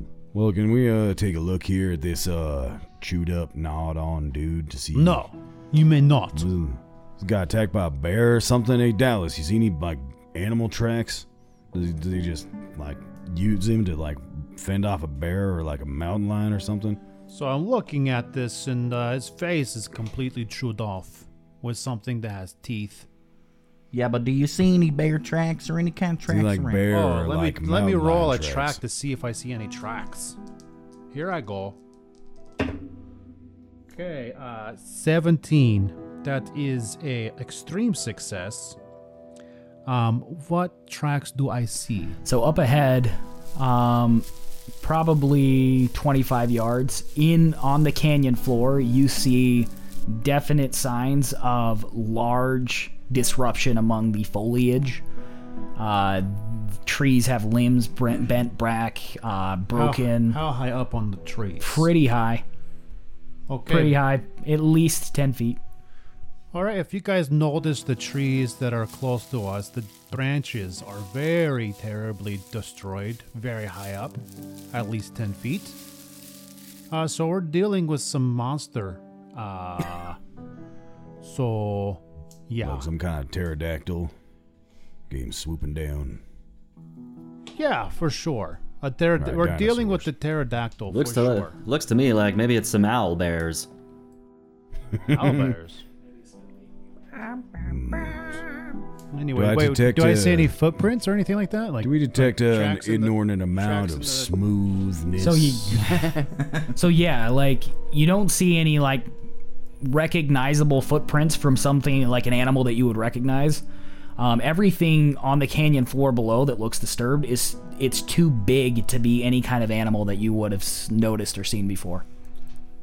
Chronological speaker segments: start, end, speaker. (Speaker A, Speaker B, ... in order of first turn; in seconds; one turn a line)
Speaker A: 0.3-5.2
Speaker B: 5.0-6.5
Speaker A: 6.3-17.0
Speaker B: 17.3-23.1
Speaker C: 23.9-26.9
Speaker A: 26.3-28.8
Speaker B: 26.9-30.4
Speaker B: 31.1-31.8
Speaker B: 33.9-38.8
Speaker B: 39.9-42.2
Speaker D: 42.2-44.3
Speaker D: 44.8-55.0
Speaker D: 55.8-60.4
Speaker B: 59.7-61.9
Speaker D: 61.6-62.4
Speaker B: 63.5-64.0
Speaker D: 63.7-65.6
Speaker B: 66.5-75.8
Speaker B: 76.9-80.2
Speaker B: 81.2-82.9
Speaker A: 82.6-84.1
Speaker A: 85.1-86.2
Speaker B: 87.5-91.6
Speaker A: 89.2-90.1
Speaker E: 90.9-93.7
Speaker B: 95.0-95.8
Speaker A: 95.1-95.5
Speaker A: 97.5-98.5
Speaker B: 99.1-104.3
Speaker A: 99.3-100.5
Speaker A: 101.8-105.9
Speaker D: 105.2-106.1
Speaker D: 106.7-109.1
Speaker D: 109.8-113.6
Speaker D: 114.2-122.0